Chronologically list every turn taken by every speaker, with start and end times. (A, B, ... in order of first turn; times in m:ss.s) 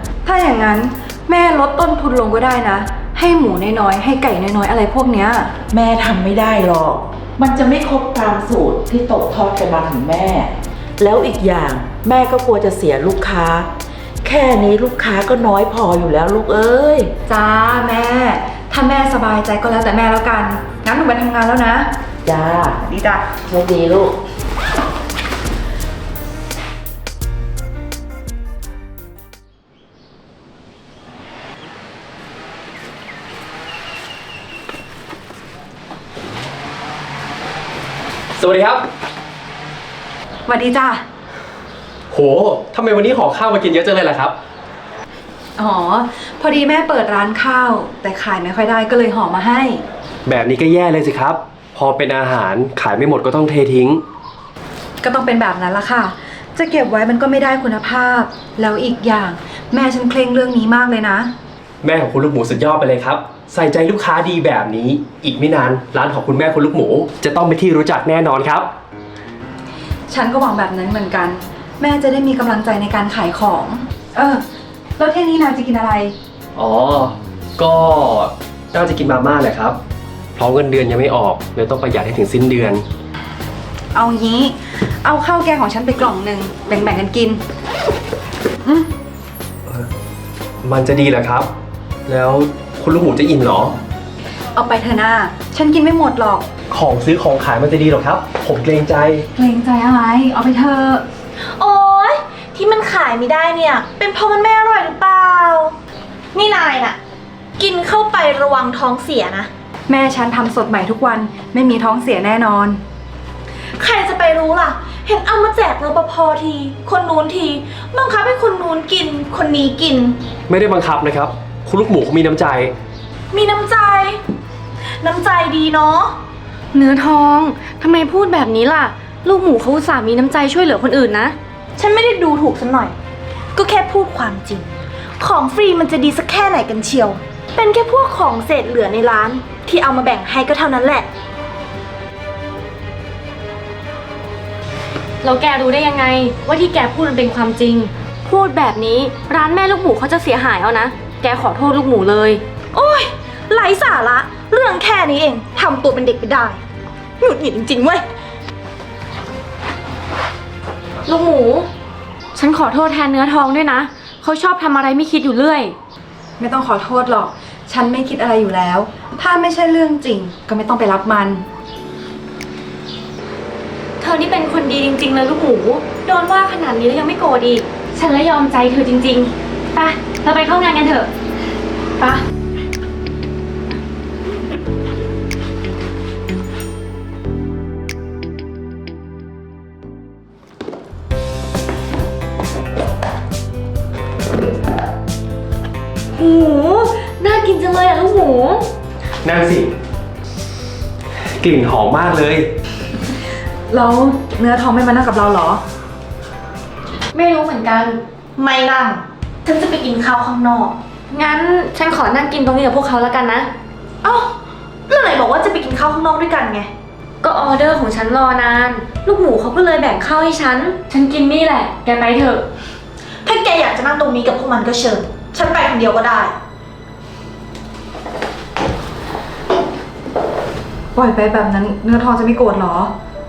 0:00.2-0:05.5 A
0:05.7-0:13.7 B
0:14.2-0:17.1 B
0:17.3-0:21.9 A
0:22.2-0:22.8 B
0:22.9-0:23.2 C
0:23.4-0:24.2 B
0:38.4-0:38.9 D
0:40.5-0:41.0 A
0:42.1-0:44.3 D
0:45.6-0:49.8 A
0:50.3-0:54.0 D
0:55.0-1:01.3 A
1:01.8-1:08.7 D
1:10.1-1:14.4 A
1:15.0-1:16.2 A
1:16.6-1:19.8 D
1:20.4-1:22.8 D
1:23.9-1:27.4 A
1:30.6-1:31.5 D
1:32.1-1:33.8 D
1:34.6-1:36.5 A
1:36.7-1:39.3 D
1:39.4-1:41.0 A
1:41.4-1:45.8 C
1:46.3-1:47.0 C
1:47.6-1:49.5 C
1:49.9-1:52.8 A
1:53.8-2:00.2 C
2:00.5-2:02.7 D
2:03.3-2:04.2 C
2:05.0-2:06.2 C
2:06.7-2:11.4 E
2:11.8-2:13.0 C
2:13.6-2:14.7 C
2:15.2-2:21.1 C
2:25.2-2:32.4 E
2:32.7-2:36.6 C
2:37.2-2:38.0 C
2:41.0-2:41.7 E
2:42.4-2:45.8 E
2:46.4-2:51.5 A
2:54.0-3:01.1 E
3:16.2-3:18.7 E
3:19.2-3:19.7 D
3:21.4-3:22.5 D
3:23.7-3:25.6 A
3:27.1-3:28.0 E
3:28.4-3:30.8 C
3:31.1-3:33.5 E
3:34.0-3:34.3 C
3:34.9-3:36.7 C
3:37.2-3:42.4 E
3:43.2-3:46.3 C
3:51.0-3:52.9 A